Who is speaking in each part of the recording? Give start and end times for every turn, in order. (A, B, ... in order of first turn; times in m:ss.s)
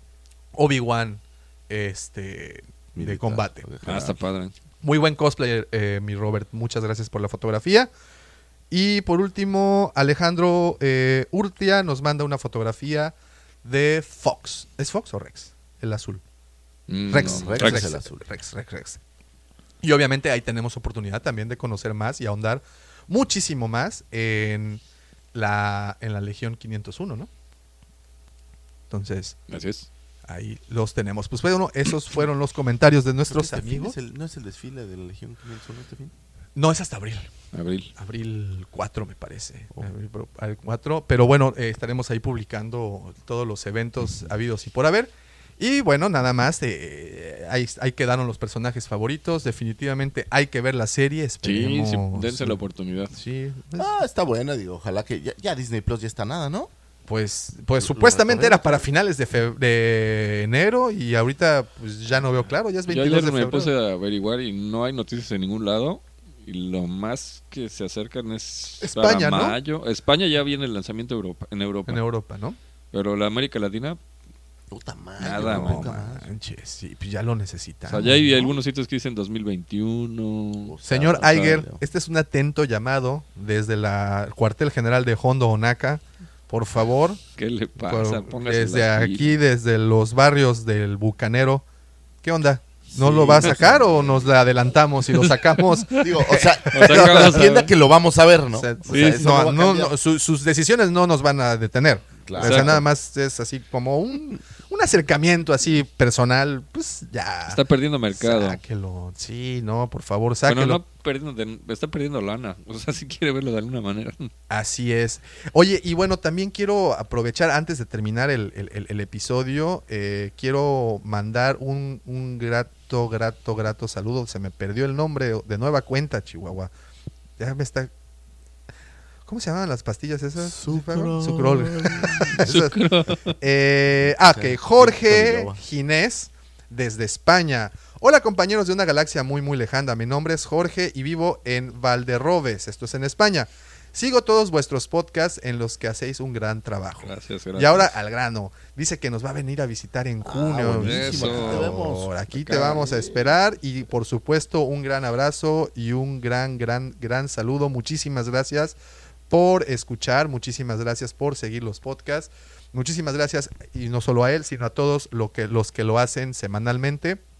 0:00.6-0:03.7 A
0:03.0-0:04.2 B
0:03.8-0:04.5 C
0:04.8-0:07.9 A
0:08.7-0:16.2 A
0:16.9-0:17.9 C
0:17.1-0:19.0 A
0:17.1-0:18.2 B
0:19.8-0:24.8 A
0:25.3-0:27.3 A
0:28.9-0:29.4 A
0:29.5-0:29.9 C
0:30.3-0:34.0 A
0:33.3-0:36.1 B
0:36.6-0:37.3 A
0:37.5-0:37.9 C
0:38.0-0:52.6 A
0:51.4-0:53.2 C
0:53.1-0:54.0 A
0:53.8-0:56.7 B
0:57.1-1:03.7 A
0:57.8-0:58.9 B
1:02.9-1:12.0 C
1:08.8-1:09.6 A
1:11.9-1:12.6 A
1:12.9-1:14.0 C
1:14.7-1:16.3 B
1:15.2-1:15.9 C
1:15.2-1:18.5 A
1:17.9-1:20.8 C
1:20.6-1:21.8 B
1:20.8-1:27.2 A
1:27.4-1:29.4 C
1:27.8-1:31.6 A
1:32.2-1:37.5 A
1:32.9-1:34.4 B
1:35.1-1:36.1 C
1:36.0-1:40.0 B
1:36.7-1:37.7 C
1:38.6-1:47.6 A
1:38.9-1:39.2 C
1:42.3-1:42.8 B
1:42.4-1:42.8 C
1:47.5-1:48.6 C
1:48.1-1:50.8 A
1:50.5-1:54.3 C
1:54.5-2:06.7 A
2:07.4-2:07.9 A
2:09.3-2:12.8 A
2:10.4-2:12.5 B
2:12.4-2:13.3 C
2:13.4-2:38.8 A
2:14.0-2:15.6 B
2:27.0-2:27.9 C
2:30.2-2:33.4 B
2:30.8-2:31.6 C
2:39.3-2:47.2 A